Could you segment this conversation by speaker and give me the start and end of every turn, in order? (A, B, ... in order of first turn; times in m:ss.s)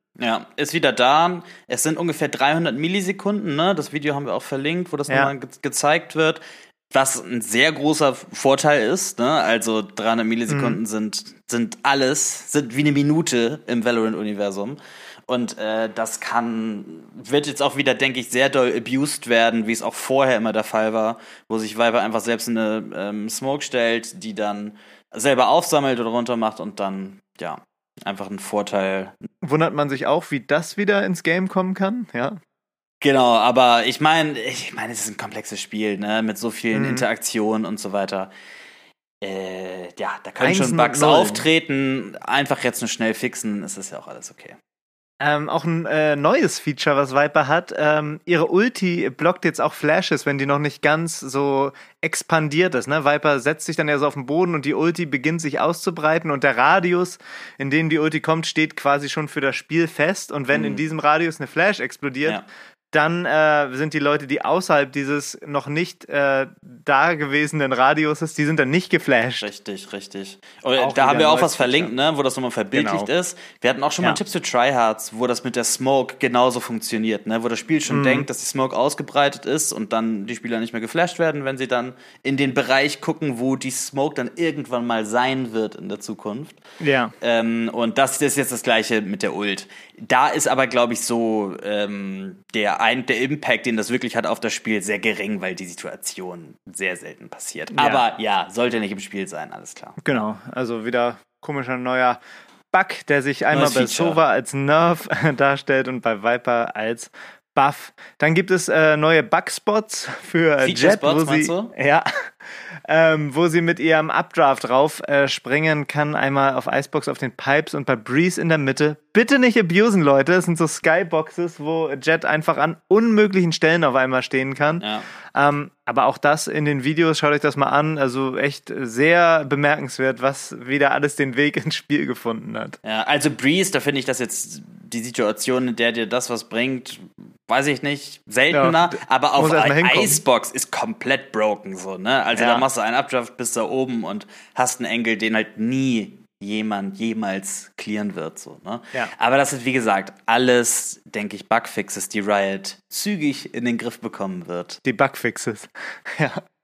0:00.2-0:29.1 A
0:10.5-0:10.8 B
0:29.4-0:32.4 B
0:33.0-0:38.3 A
0:36.7-0:37.0 B
0:39.2-0:44.6 A
0:40.4-0:41.4 B
0:45.2-1:09.5 B
1:00.5-1:00.8 A
1:09.4-1:26.6 A
1:10.8-1:11.9 B
1:12.7-1:13.1 B
1:17.9-1:18.2 B
1:26.8-1:27.1 B
1:27.2-1:40.0 A
1:37.7-1:38.0 B
1:40.0-1:42.2 B
1:42.7-1:52.0 B
1:43.5-1:44.2 A
1:50.6-1:51.7 A
1:52.9-2:12.8 B
2:04.8-2:05.0 A
2:12.8-2:34.8 A
2:18.5-2:20.2 B
2:22.3-2:22.6 B
2:34.8-2:36.4 B